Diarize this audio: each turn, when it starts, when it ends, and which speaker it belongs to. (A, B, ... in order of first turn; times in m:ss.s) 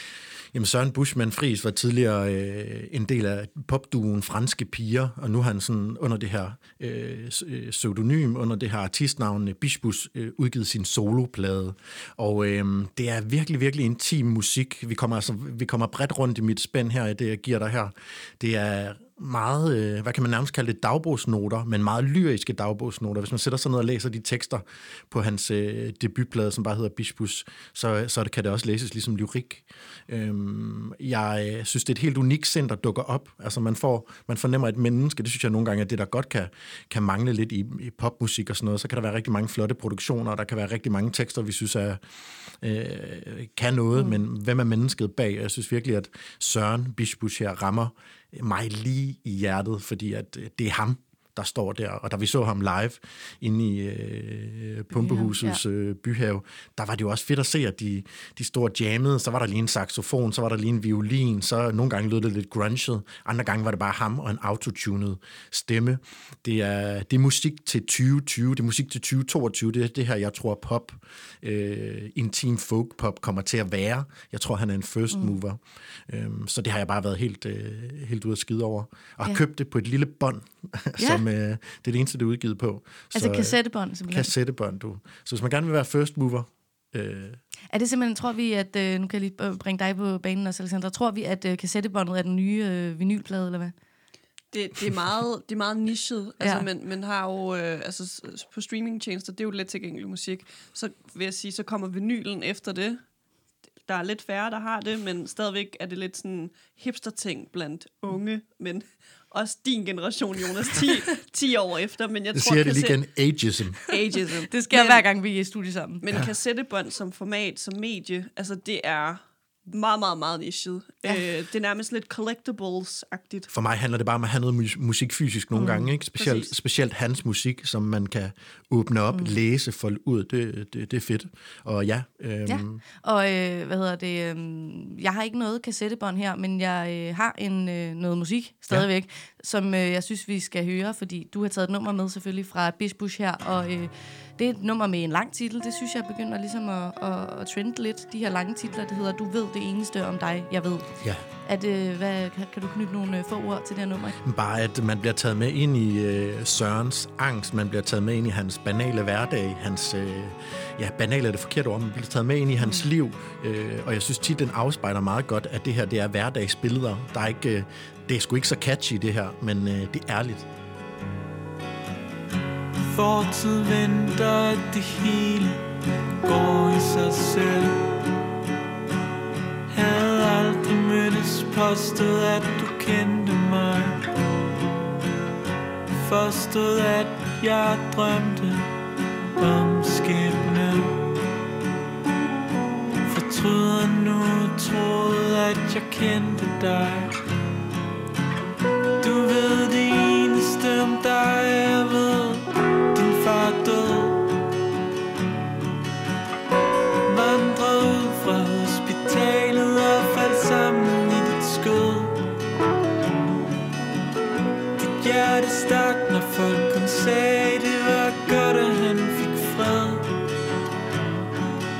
0:00.5-0:42.0 A
0:42.6-1:23.6 A
0:54.9-0:55.6 B
1:21.0-1:21.2 B
1:23.1-1:24.3 B
1:24.1-1:27.4 A
1:27.7-1:33.7 B
1:34.5-1:43.0 C
1:36.4-1:36.7 B
1:43.8-1:53.0 C
1:52.3-1:53.8 A
1:53.9-1:55.0 C
1:54.4-1:56.0 B
1:56.0-2:03.5 C
2:03.5-2:12.8 A
2:05.5-2:05.9 B
2:06.2-2:06.5 C
2:12.4-2:34.2 B
2:31.0-2:31.2 A
2:34.2-2:50.5 A
2:52.9-2:55.6 D
2:56.2-2:57.9 D
2:59.7-3:04.0 D
3:05.9-3:08.7 D
3:09.4-3:11.1 D
3:13.0-3:17.2 D
3:19.0-3:24.3 D
3:27.0-3:32.2 D
3:34.8-3:40.1 D